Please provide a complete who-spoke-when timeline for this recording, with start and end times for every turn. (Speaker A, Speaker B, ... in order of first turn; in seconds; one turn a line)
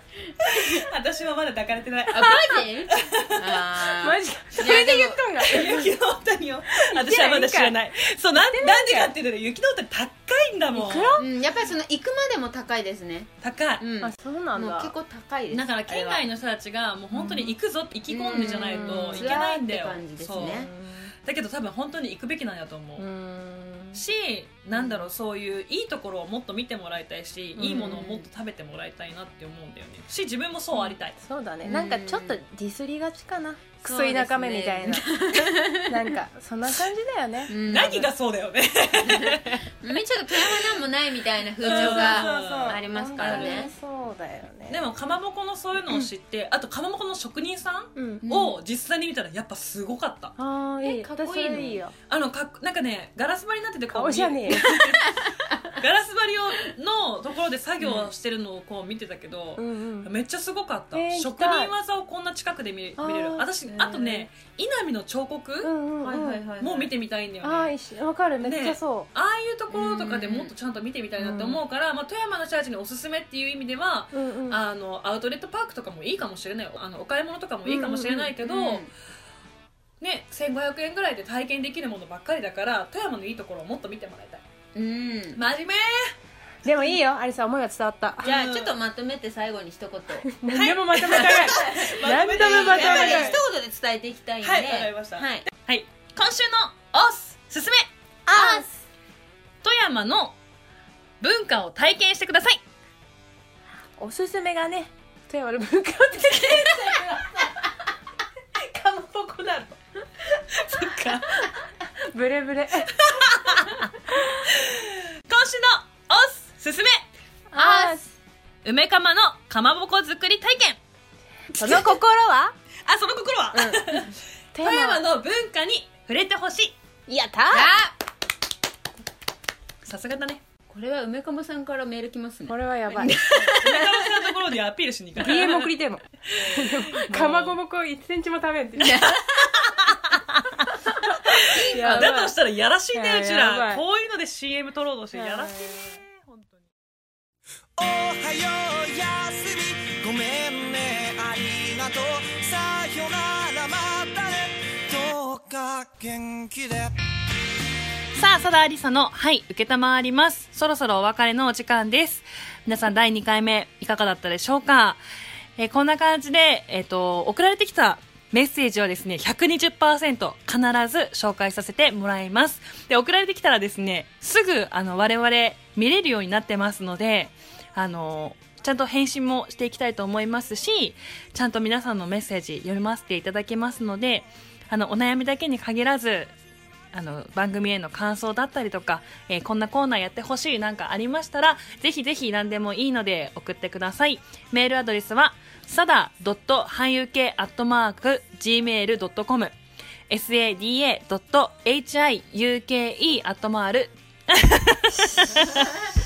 Speaker A: 0.4-0.8
Speaker B: 0.4-4.0
Speaker A: 2.1-5.2
Speaker C: 4.0-5.9
Speaker B: 5.4-11.2
Speaker C: 6.8-7.8
Speaker C: 8.3-9.1
Speaker C: 10.7-11.2
Speaker A: 11.2-16.2
Speaker B: 13.4-13.8
Speaker C: 14.0-14.9
Speaker B: 15.5-20.7
Speaker A: 17.1-17.6
Speaker A: 18.1-20.7
Speaker C: 18.5-19.3
Speaker C: 20.4-21.1
Speaker B: 21.2-23.1
Speaker C: 23.0-24.0
Speaker B: 23.9-31.2
Speaker A: 24.7-25.1
Speaker A: 27.6-28.3
Speaker A: 30.7-31.0
Speaker C: 31.1-37.5
Speaker A: 31.6-32.4
Speaker A: 33.8-36.1
Speaker A: 37.5-38.1
Speaker B: 37.6-39.7
Speaker A: 39.1-43.7
Speaker B: 41.6-43.7
Speaker C: 41.6-44.8
Speaker B: 44.7-50.3
Speaker C: 47.9-48.2
Speaker A: 48.2-48.6
Speaker C: 50.4-51.9
Speaker A: 50.8-51.8
Speaker B: 52.1-65.7
Speaker C: 53.9-54.8
Speaker A: 57.8-58.1
Speaker C: 59.6-60.1
Speaker C: 60.9-61.7
Speaker C: 63.0-63.5
Speaker A: 63.7-64.2
Speaker C: 65.6-66.4
Speaker A: 66.0-66.9
Speaker B: 66.6-67.7
Speaker C: 67.4-69.1
Speaker B: 68.4-78.9
Speaker A: 69.7-70.5
Speaker C: 71.2-71.6
Speaker C: 74.1-74.6
Speaker C: 77.6-78.3
Speaker A: 78.4-78.9
Speaker B: 80.0-84.4
Speaker A: 84.7-85.4
Speaker B: 85.3-86.1
Speaker C: 86.6-88.3
Speaker A: 88.2-90.2
Speaker B: 88.2-88.7
Speaker C: 90.2-93.4
Speaker B: 90.5-93.4
Speaker A: 91.2-95.5
Speaker B: 94.4-97.9
Speaker C: 98.3-98.8
Speaker A: 98.3-98.7
Speaker B: 99.6-100.4
Speaker B: 101.2-102.6
Speaker C: 104.0-107.7
Speaker C: 108.5-109.8
Speaker B: 110.5-111.5
Speaker C: 112.0-113.0
Speaker B: 112.9-117.0
Speaker C: 117.5-118.1
Speaker A: 117.6-118.0
Speaker B: 118.6-120.8
Speaker C: 121.5-122.5
Speaker B: 121.6-121.9
Speaker B: 122.8-126.8
Speaker C: 123.5-124.0
Speaker C: 124.5-125.0
Speaker C: 127.1-127.7
Speaker A: 127.5-127.9
Speaker B: 129.8-130.4
Speaker A: 130.7-134.2
Speaker C: 132.5-133.5
Speaker B: 133.5-135.7
Speaker C: 135.2-139.1
Speaker B: 136.3-137.6
Speaker A: 138.8-139.6
Speaker B: 138.8-146.7
Speaker A: 141.5-142.1
Speaker C: 141.7-142.3
Speaker C: 142.9-143.8
Speaker C: 145.1-145.9
Speaker D: 147.8-156.9
Speaker B: 158.2-165.0
Speaker B: 165.6-186.3
Speaker B: 186.9-199.6
Speaker B: 200.1-205.7